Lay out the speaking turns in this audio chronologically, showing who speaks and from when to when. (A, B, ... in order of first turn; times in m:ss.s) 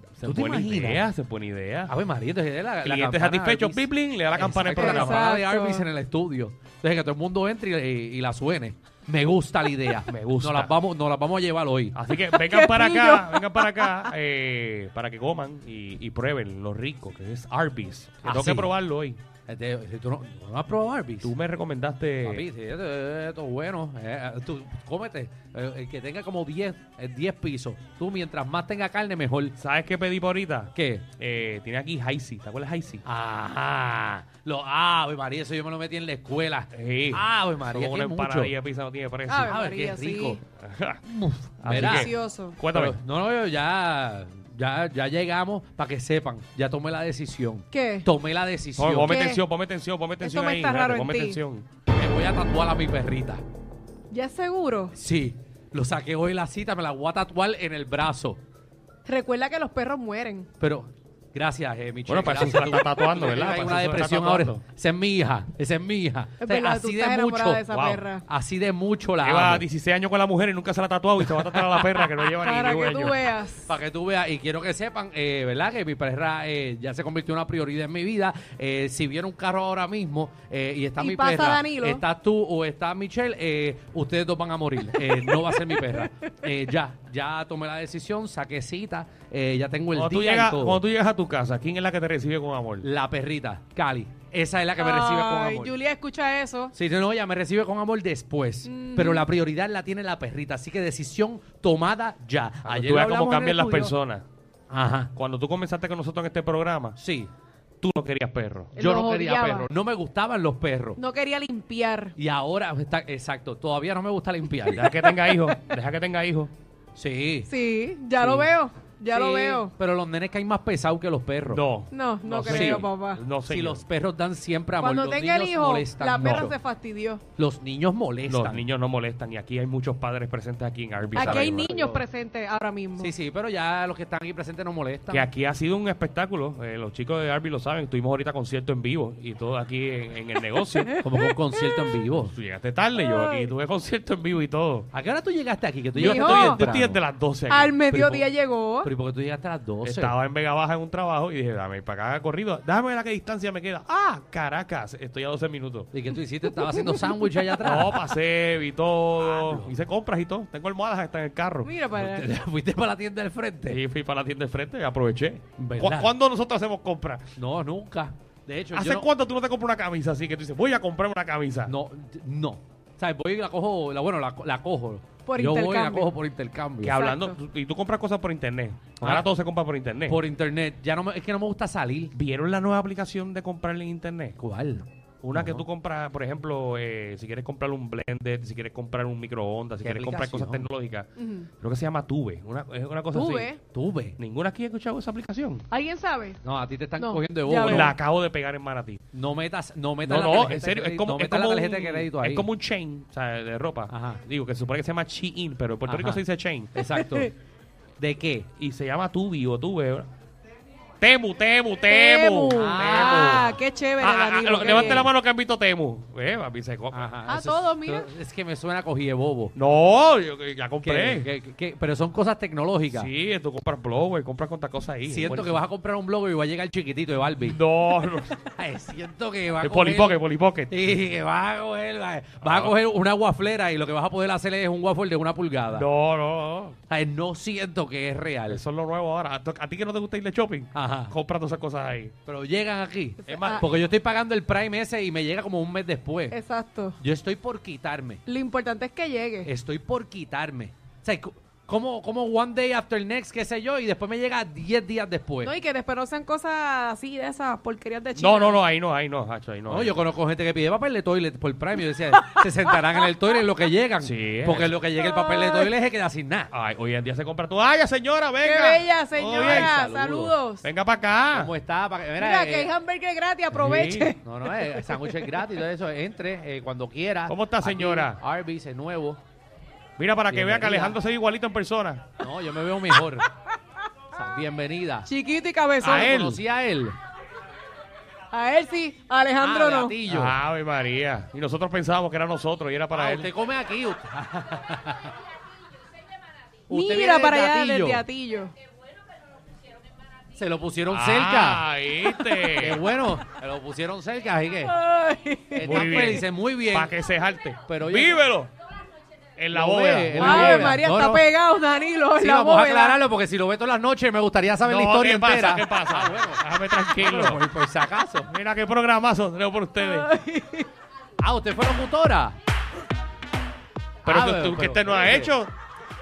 0:00.2-0:01.9 A
0:00.2-0:01.0 B
0:01.9-0:12.0 B
0:02.8-0:05.2 A
0:04.8-0:05.8 C
0:10.1-0:10.7 A
0:11.9-0:19.2 A
0:12.2-0:14.1 C
0:18.2-0:18.7 B
0:19.5-0:21.3 B
0:21.2-0:22.4 A
0:22.2-0:29.6 B
0:29.6-0:33.0 A
0:30.7-0:31.0 B
0:33.0-0:38.5 B
0:36.7-0:39.5 A
0:39.3-0:40.4 C
0:39.5-0:40.4 B
0:40.6-0:43.0 A
0:41.2-0:42.1 B
0:41.9-0:42.6 C
0:42.7-0:49.1 B
0:47.7-0:48.1 C
0:48.8-0:51.7 A
0:49.1-0:49.4 C
0:50.2-0:51.4 C
0:51.9-0:53.4 B
0:54.1-0:54.9 C
0:54.9-0:58.4 B
0:59.0-1:00.5 C
1:00.6-1:09.6 B
1:02.1-1:04.6 A
1:06.4-1:08.2 C
1:07.7-1:08.0 A
1:09.2-1:13.2 A
1:12.4-1:13.7 C
1:13.7-1:30.8 B
1:21.0-1:22.0 C
1:25.2-1:25.9 C
1:29.9-1:32.9 A
1:32.8-1:35.8 B
1:34.8-1:36.7 C
1:36.7-1:43.9 B
1:38.6-1:39.2 C
1:42.6-1:44.2 A
1:44.7-1:45.1 B
1:45.1-1:47.0 A
1:47.0-1:47.3 B
1:47.8-1:48.8 A
1:48.8-1:49.7 C
1:48.8-1:51.0 B
1:51.0-1:52.1 C
1:52.2-1:54.9 B
1:54.7-1:56.5 A
1:57.0-1:57.5 B
1:57.5-1:59.7 C
1:58.2-1:58.5 B
1:59.1-2:01.6 B
2:01.5-2:03.8 A
2:01.9-2:03.2 C
2:02.3-2:02.9 B
2:03.5-2:06.5 B
2:04.8-2:07.2 C
2:06.2-2:06.5 A
2:07.4-2:08.7 B
2:08.3-2:11.8 A
2:11.0-2:12.0 B
2:11.2-2:13.1 C
2:13.0-2:15.3 B
2:15.1-2:21.0 A
2:21.0-2:22.3 B
2:22.3-2:24.9 A
2:23.0-2:23.5 C
2:24.9-2:27.0 B
2:26.0-2:26.7 C
2:26.0-2:27.8 A
2:27.5-2:28.9 C
2:27.9-2:28.3 B
2:28.8-2:30.2 B
2:29.8-2:35.9 A
2:35.9-2:38.0 B
2:37.6-2:41.7 A
2:39.2-2:39.7 B
2:41.6-2:42.3 C
2:42.0-2:43.8 B
2:43.7-2:47.2 A
2:45.6-2:46.1 B
2:47.4-2:49.1 B
2:48.7-2:51.7 A
2:51.7-2:57.0 B
2:55.3-2:56.1 C
2:56.8-3:00.2 A
2:56.9-2:57.4 C
2:59.0-2:59.3 B
3:00.1-3:02.1 B
3:02.1-3:04.4 A
3:04.4-3:05.6 B
3:05.2-3:11.1 A
3:09.8-3:10.7 B
3:11.2-3:11.5 C
3:11.6-3:13.6 A
3:13.1-3:13.6 C
3:13.7-3:14.2 B
3:14.2-3:15.6 A
3:15.7-3:16.4 C
3:16.4-3:18.0 B
3:17.0-3:17.9 C
3:17.6-3:19.0 A
3:19.1-3:22.5 B
3:20.0-3:26.8 A
3:23.9-3:24.2 B
3:25.9-3:26.2 B
3:26.8-3:27.3 B
3:28.0-3:28.5 B
3:28.6-3:30.1 A
3:31.0-3:37.1 A
3:31.9-3:35.1 C
3:32.5-3:33.6 B
3:36.9-3:39.5 B
3:37.3-3:38.1 C
3:39.6-3:41.3 A
3:40.8-3:43.1 B
3:42.9-3:45.6 A
3:45.1-3:47.6 B
3:47.4-3:48.4 A
3:48.5-3:55.9 B
3:49.6-3:50.7 A
3:52.4-3:52.8 A
3:55.7-3:56.8 A
3:56.9-3:58.6 B
3:58.5-4:02.2 A
4:00.7-4:01.1 B
4:02.3-4:06.4 B
4:03.3-4:03.6 C
4:03.3-4:03.6 A
4:06.3-4:07.0 C
4:07.0-4:08.2 B
4:08.3-4:09.5 C
4:09.4-4:15.5 B
4:15.4-4:18.6 C
4:18.2-4:20.0 A
4:19.7-4:26.5 B
4:24.0-4:24.8 A
4:26.5-4:29.7 A
4:28.4-4:30.6 C
4:29.4-4:30.3 B
4:30.6-4:31.5 A
4:31.3-4:32.7 B
4:32.2-4:35.2 C
4:33.5-4:34.2 A
4:34.2-4:39.2 B
4:37.3-4:38.2 A
4:40.0-4:42.1 A
4:40.3-4:41.0 B
4:42.2-4:43.3 B
4:44.1-4:45.1 B
4:45.1-4:46.0 C
4:45.8-4:46.4 A
4:45.8-4:47.0 B
4:48.3-4:50.0 C
4:49.4-4:50.4 B
4:50.1-4:53.3 A
4:52.9-4:55.1 B
4:56.7-4:58.0 B
4:56.7-4:58.6 C
5:00.3-5:01.6 B
5:00.9-5:02.8 A
5:02.6-5:04.8 B
5:04.7-5:05.6 C
5:05.5-5:06.9 B
5:05.6-5:08.5 A
5:07.7-5:08.2 B
5:09.4-5:11.2 A
5:09.5-5:11.2 B
5:10.2-5:13.0 C
5:12.2-5:16.4 B
5:14.6-5:17.4 A
5:17.0-5:18.3 B
5:18.3-5:20.1 A
5:19.8-5:20.7 C
5:21.2-5:22.4 B
5:24.0-5:25.5 A
5:24.1-5:25.3 B